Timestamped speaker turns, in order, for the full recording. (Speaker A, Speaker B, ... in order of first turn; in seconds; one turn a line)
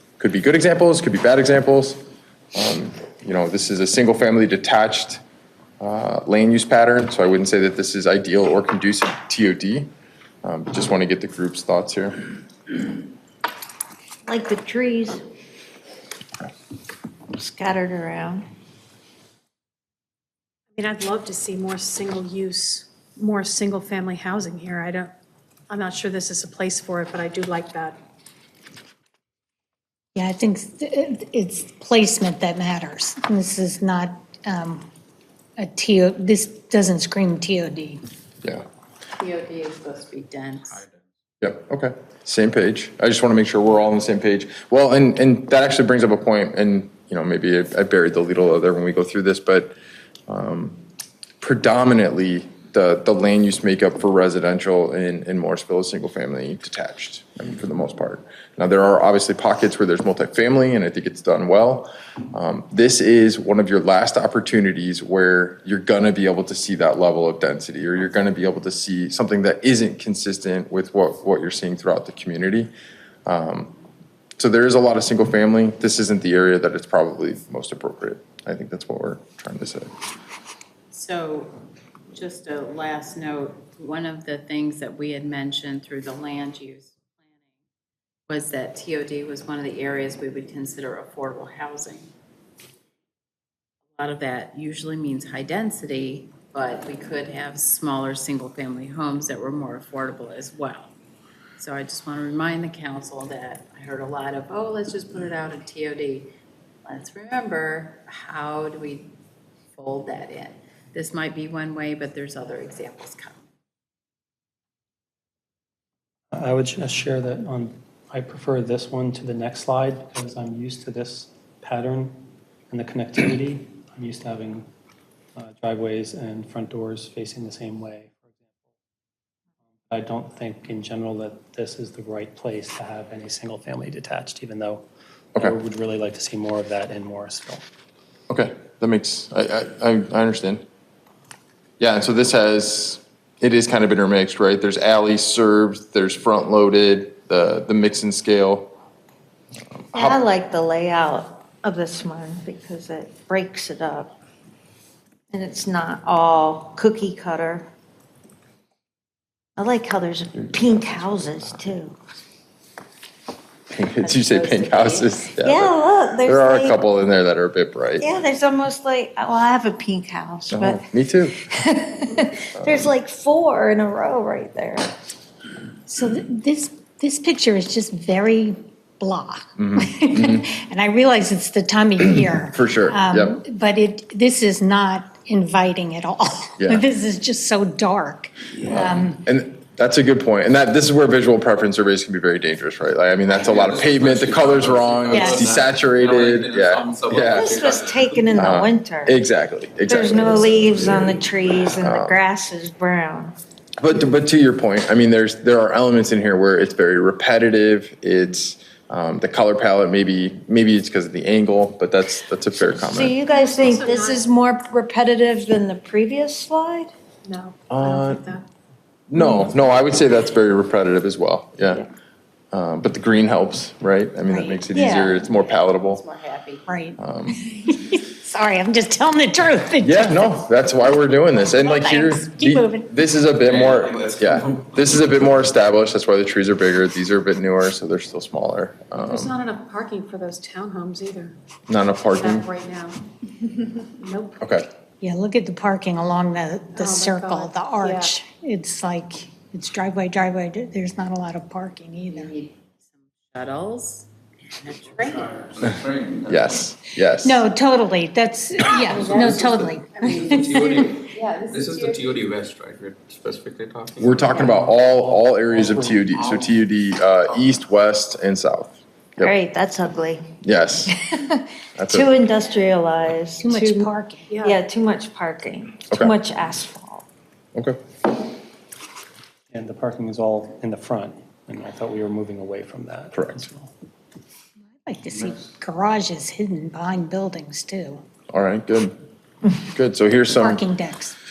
Speaker A: 0.2-2.0
Speaker A: 2.5-5.2
Speaker A: 5.8-9.9
Speaker A: 10.4-12.1
Speaker B: 14.3-15.2
Speaker B: 17.3-18.4
Speaker C: 20.7-25.1
Speaker C: 25.7-28.0
Speaker D: 30.2-34.9
Speaker D: 35.6-38.0
Speaker E: 39.2-40.8
Speaker A: 41.4-49.7
Speaker A: 50.3-50.8
Speaker A: 51.4-72.7
Speaker A: 73.3-73.7
Speaker A: 74.4-79.9
Speaker E: 80.9-81.6
Speaker E: 82.1-87.0
Speaker E: 88.3-92.1
Speaker E: 94.0-100.9
Speaker E: 101.6-106.3
Speaker E: 106.9-109.2
Speaker E: 109.8-113.5
Speaker F: 117.2-117.7
Speaker F: 118.5-119.4
Speaker F: 119.9-122.1
Speaker F: 122.8-124.6
Speaker F: 125.4-128.0
Speaker F: 129.9-134.8
Speaker F: 135.4-137.6
Speaker A: 138.3-140.6
Speaker A: 141.8-148.7
Speaker A: 149.7-150.2
Speaker B: 149.9-154.2
Speaker B: 155.3-157.7
Speaker B: 159.6-162.0
Speaker A: 163.7-168.1
Speaker B: 164.1-166.8
Speaker B: 168.0-170.9
Speaker A: 170.5-171.5
Speaker B: 171.5-174.9
Speaker D: 175.9-189.2
Speaker A: 179.6-180.5
Speaker A: 182.0-183.4
Speaker A: 186.6-186.9
Speaker A: 188.7-197.5
Speaker G: 193.5-198.3
Speaker D: 195.1-195.4
Speaker B: 197.3-199.2
Speaker A: 198.3-200.7
Speaker B: 199.9-203.4
Speaker A: 201.8-202.2
Speaker A: 203.8-213.2
Speaker B: 212.8-216.9
Speaker C: 213.3-214.2
Speaker C: 217.2-218.5
Speaker A: 217.7-218.3
Speaker A: 219.1-221.8
Speaker A: 222.5-226.0
Speaker D: 224.3-224.6
Speaker B: 224.7-225.1
Speaker E: 225.2-226.7
Speaker D: 226.7-230.4
Speaker A: 227.0-227.4
Speaker A: 229.8-239.3
Speaker D: 231.4-232.9
Speaker G: 233.5-234.5
Speaker C: 239.1-241.4
Speaker A: 241.7-242.5
Speaker C: 242.1-243.0
Speaker C: 244.0-244.3
Speaker A: 244.4-244.7
Speaker D: 245.0-252.3
Speaker C: 246.8-248.2
Speaker E: 252.1-255.4
Speaker C: 255.0-255.3
Speaker G: 255.4-256.4
Speaker A: 256.3-257.4
Speaker D: 257.2-260.8
Speaker E: 258.8-262.2
Speaker G: 259.0-259.3
Speaker G: 260.3-264.3
Speaker A: 264.0-269.3
Speaker G: 266.1-266.5
Speaker B: 269.2-270.3
Speaker A: 270.4-270.9
Speaker B: 270.9-273.9
Speaker A: 271.8-272.1
Speaker D: 273.4-274.3
Speaker C: 274.3-274.6
Speaker B: 274.4-277.1
Speaker F: 279.6-280.8
Speaker F: 281.5-283.6
Speaker A: 283.1-283.5
Speaker D: 284.9-288.0
Speaker A: 288.3-288.9
Speaker A: 289.6-290.6
Speaker D: 290.3-291.1